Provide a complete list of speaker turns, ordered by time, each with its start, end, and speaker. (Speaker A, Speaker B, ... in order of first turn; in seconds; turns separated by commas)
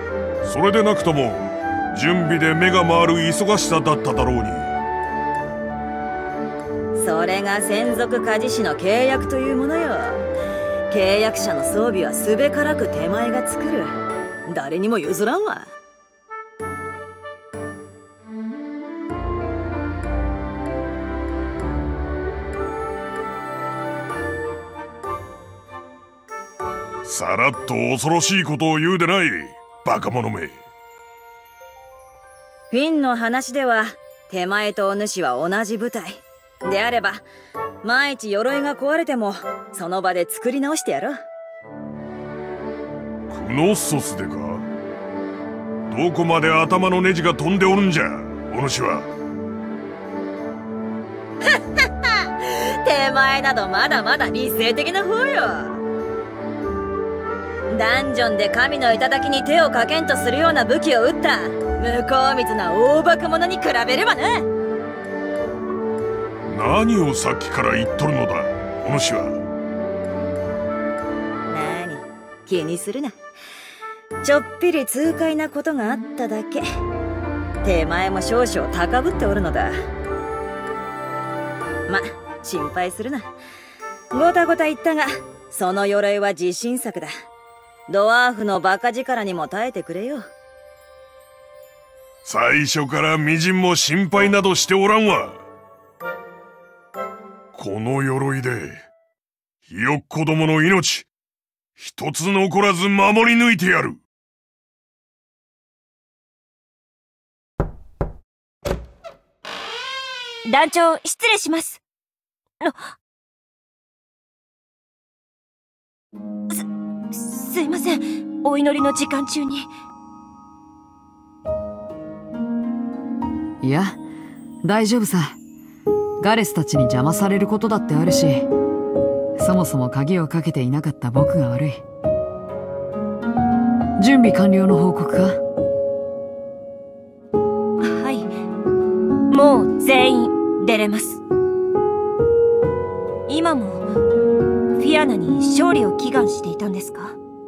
Speaker A: 0.4-4.7, Speaker B: 6.9-10.2, Speaker B: 10.9-13.9, Speaker B: 14.5-15.7, Speaker A: 27.0-30.6, Speaker B: 32.7-37.2, Speaker B: 37.8-41.2, Speaker A: 43.3-44.6, Speaker A: 45.9-49.1, Speaker B: 51.4-55.8, Speaker B: 57.7-64.5, Speaker A: 66.5-69.4, Speaker B: 71.5-73.2, Speaker B: 74.2-76.6, Speaker B: 77.6-79.7, Speaker B: 81.9-83.3, Speaker B: 84.1-87.1, Speaker B: 87.9-90.2, Speaker A: 92.2-95.4, Speaker A: 97.5-98.8, Speaker A: 99.7-101.1, Speaker A: 101.8-104.0, Speaker C: 110.5-111.8, Speaker C: 116.5-119.7, Speaker D: 123.6-124.0, Speaker D: 124.6-125.4, Speaker D: 126.2-128.5, Speaker D: 129.4-131.8, Speaker D: 134.0-135.4, Speaker C: 137.8-138.3, Speaker C: 139.3-141.2, Speaker C: 143.3-143.8, Speaker C: 144.8-147.2